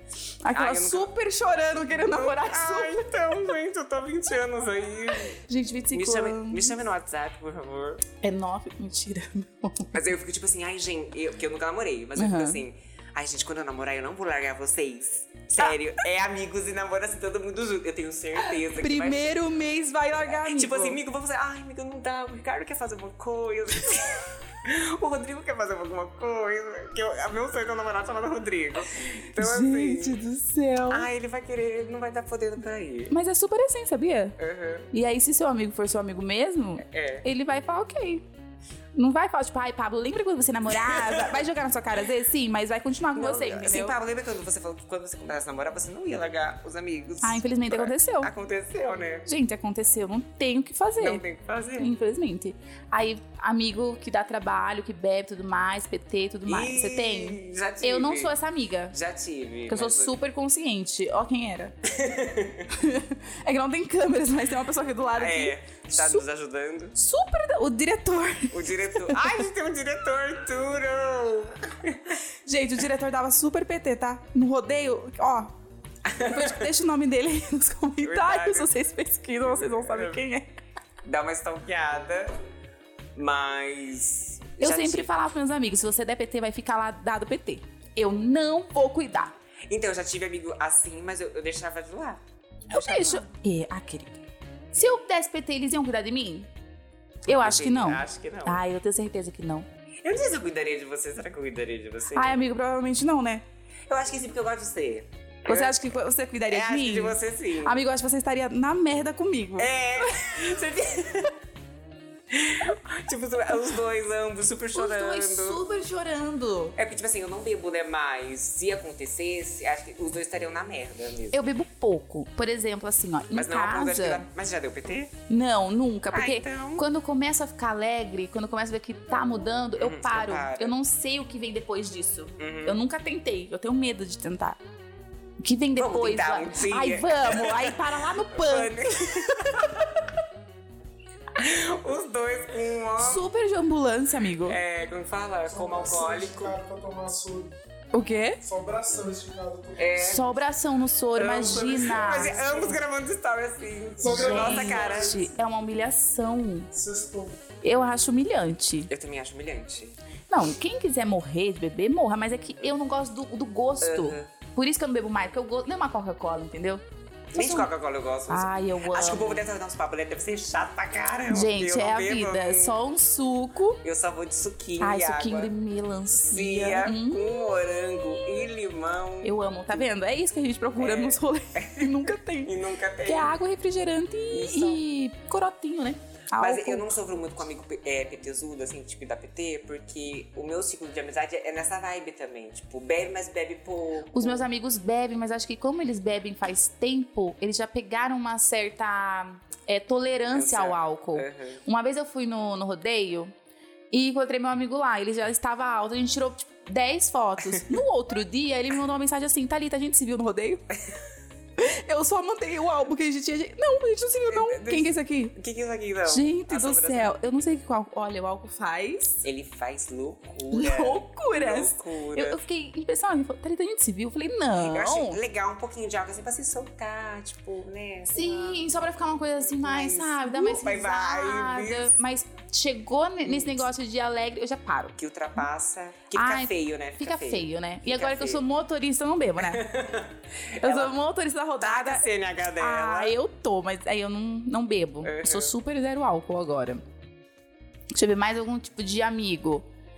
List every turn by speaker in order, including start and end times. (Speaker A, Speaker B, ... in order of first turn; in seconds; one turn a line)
Speaker A: 0.4-3.5
Speaker B: 0.5-1.1
Speaker B: 1.8-5.4
Speaker A: 5.4-6.8
Speaker B: 5.9-8.0
Speaker A: 8.2-9.9
Speaker B: 9.9-19.4
Speaker A: 12.2-12.6
Speaker A: 18.4-21.0
Speaker B: 20.2-30.2
Speaker A: 29.4-31.1
Speaker B: 30.9-33.1
Speaker A: 33.1-34.4
Speaker B: 34.4-34.9
Speaker A: 34.9-38.2
Speaker B: 36.8-37.3
Speaker A: 39.0-44.0
Speaker B: 40.7-41.5
Speaker B: 43.1-49.3
Speaker A: 47.2-48.3
Speaker A: 49.3-51.2
Speaker B: 51.0-51.9
Speaker A: 51.8-59.0
Speaker B: 56.5-58.3
Speaker B: 58.9-60.2
Speaker A: 59.7-61.8
Speaker B: 61.9-62.7
Speaker A: 62.7-66.2
Speaker B: 65.2-67.0
Speaker A: 67.0-69.4
Speaker B: 68.5-72.2
Speaker A: 72.5-75.5
Speaker B: 76.0-76.7
Speaker A: 76.2-80.5
Speaker B: 78.0-78.7
Speaker B: 79.4-80.2
Speaker B: 81.0-82.3
Speaker B: 83.2-85.1
Speaker A: 84.6-89.3
Speaker B: 89.7-93.3
Speaker A: 92.7-96.5
Speaker A: 97.3-99.7
Speaker B: 97.3-98.6
Speaker B: 100.0-102.5
Speaker A: 102.1-103.4
Speaker B: 103.9-105.8
Speaker A: 105.5-110.4
Speaker B: 106.5-107.8
Speaker B: 109.6-111.3
Speaker B: 112.3-115.7
Speaker A: 114.7-116.8
Speaker B: 116.8-121.5
Speaker A: 121.3-124.3
Speaker B: 123.3-125.1
Speaker A: 125.3-134.6
Speaker B: 126.1-126.9
Speaker B: 129.8-130.8
Speaker B: 132.4-132.8
Speaker A: 135.4-140.1
Speaker B: 135.8-139.9
Speaker B: 141.4-143.3
Speaker A: 143.0-144.6
Speaker B: 144.4-146.6
Speaker C: 145.5-147.5
Speaker A: 147.9-148.4
Speaker C: 148.4-150.3
Speaker B: 149.8-150.3
Speaker A: 150.0-152.7
Speaker B: 151.2-155.3
Speaker C: 152.1-152.8
Speaker C: 154.0-155.3
Speaker A: 154.0-156.7
Speaker C: 156.7-157.4
Speaker A: 157.6-158.9
Speaker B: 158.9-160.0
Speaker A: 160.3-166.8
Speaker B: 163.8-164.3
Speaker B: 167.3-172.8
Speaker A: 167.3-167.7
Speaker A: 168.3-169.5
Speaker A: 171.3-173.8
Speaker B: 173.8-175.5
Speaker A: 174.8-178.4
Speaker B: 176.2-179.8
Speaker A: 179.2-187.0
Speaker B: 180.8-183.3
Speaker B: 184.3-184.8
Speaker B: 186.4-194.5
Speaker A: 194.1-203.3
Speaker B: 200.3-201.6
Speaker A: 203.9-210.7
Speaker A: 211.6-215.3
Speaker B: 214.3-217.2
Speaker A: 216.1-219.2
Speaker B: 219.2-222.4
Speaker A: 220.5-225.2
Speaker B: 224.6-232.0
Speaker A: 228.1-235.0
Speaker B: 233.2-233.7
Speaker B: 235.0-238.4
Speaker A: 236.1-239.7
Speaker B: 239.4-241.0
Speaker A: 240.6-242.1
Speaker B: 241.6-243.2
Speaker A: 242.6-246.8
Speaker B: 245.0-245.5
Speaker A: 247.9-249.7